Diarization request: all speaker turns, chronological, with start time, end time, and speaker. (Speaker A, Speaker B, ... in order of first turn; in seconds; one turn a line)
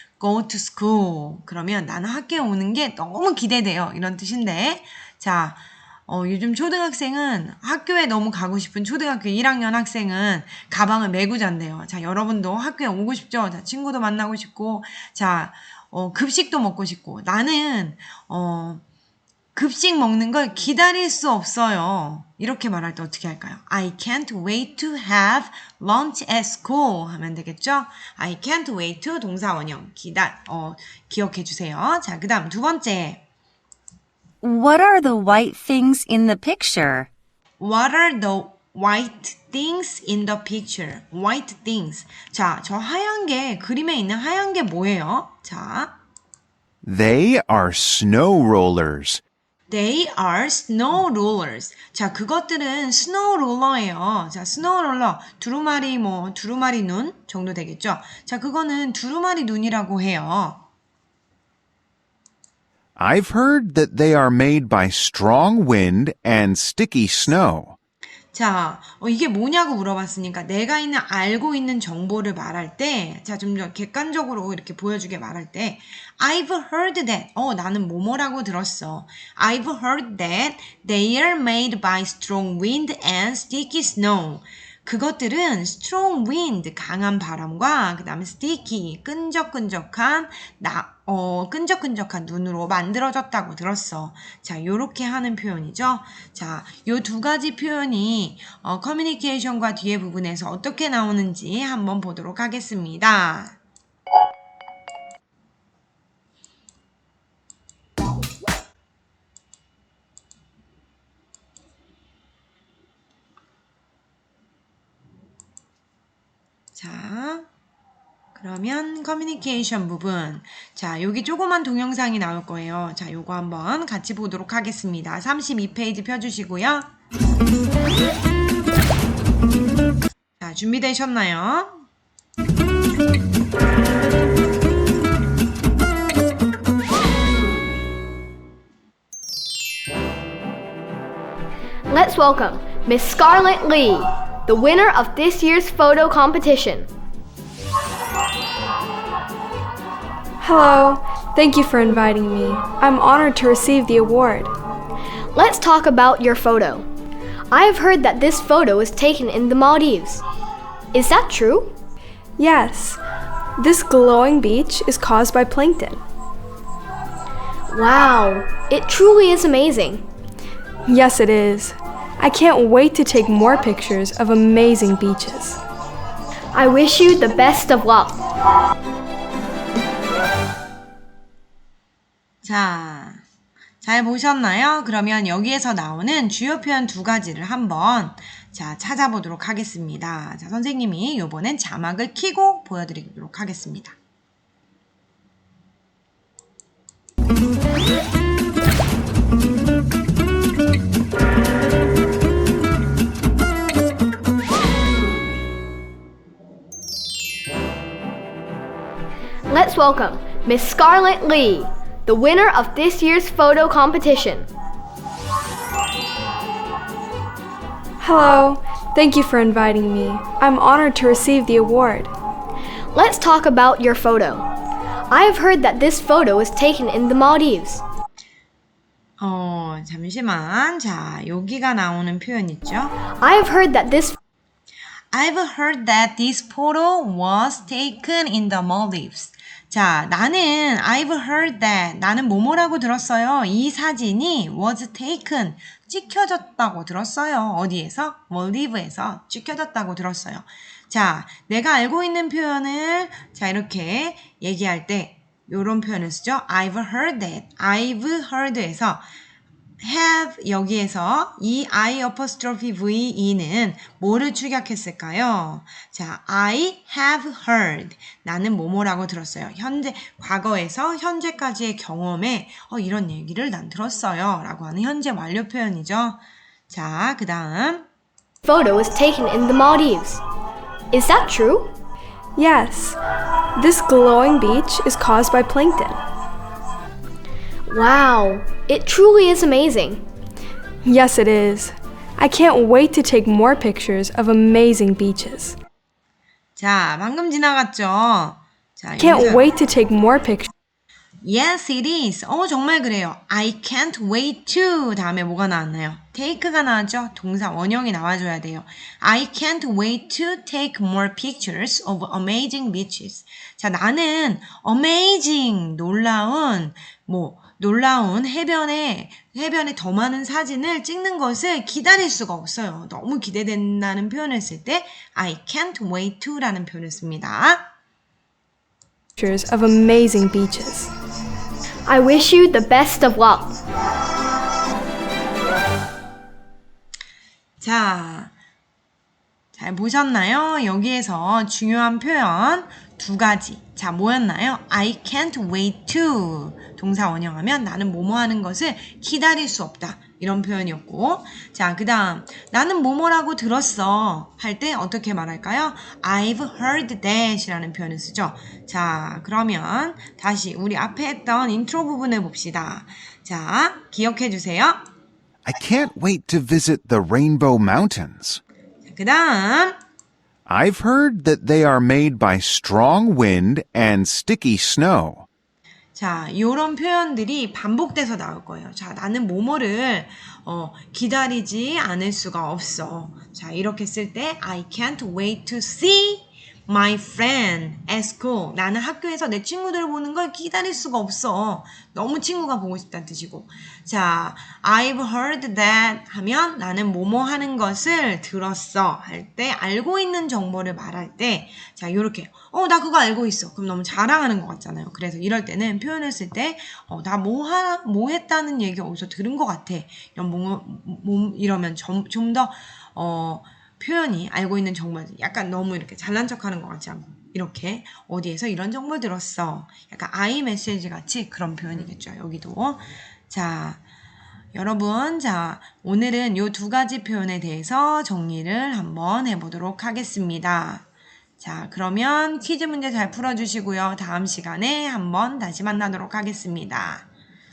Speaker A: 0.2-18.8
Speaker A: 19.6-33.2
Speaker B: 34.4-37.1
Speaker A: 37.6-46.0
Speaker C: 46.8-49.2
Speaker A: 49.7-60.6
Speaker C: 63.0-67.8
Speaker A: 68.3-103.6
Speaker A: 116.8-117.5
Speaker A: 118.3-126.9
Speaker A: 130.4-131.8
Speaker D: 141.9-146.9
Speaker E: 150.4-154.5
Speaker D: 155.3-156.9
Speaker D: 157.5-160.2
Speaker D: 160.9-161.8
Speaker E: 162.4-163.0
Speaker E: 163.6-166.0
Speaker D: 167.7-170.0
Speaker E: 170.9-175.6
Speaker D: 176.5-178.2
Speaker A: 182.4-183.2
Speaker A: 183.8-194.0
Speaker D: 209.5-214.5
Speaker E: 218.0-222.1
Speaker D: 222.9-224.5
Speaker D: 225.1-227.8
Speaker A: 229.2-232.9
Speaker D: 233.2-234.2
Speaker A: 235.1-259.1
Speaker A: 259.8-277.9
Speaker D: 278.4-280.2
Speaker D: 280.9-281.7
Speaker E: 282.4-283.0
Speaker E: 283.6-286.0
Speaker D: 287.7-290.0
Speaker E: 290.8-295.6
Speaker A: 296.6-299.5
Speaker E: 299.0-300.5
Speaker A: 301.2-327.7
Speaker E: 329.2-330.9
Speaker D: 331.9-333.6
Speaker A: 337.6-338.3
Speaker A: 339.6-364.8
Speaker C: 365.4-368.4
Speaker A: 368.8-369.8
Speaker C: 370.5-375.3
Speaker A: 375.9-423.8
Speaker A: 424.5-430.9
Speaker A: 431.4-437.1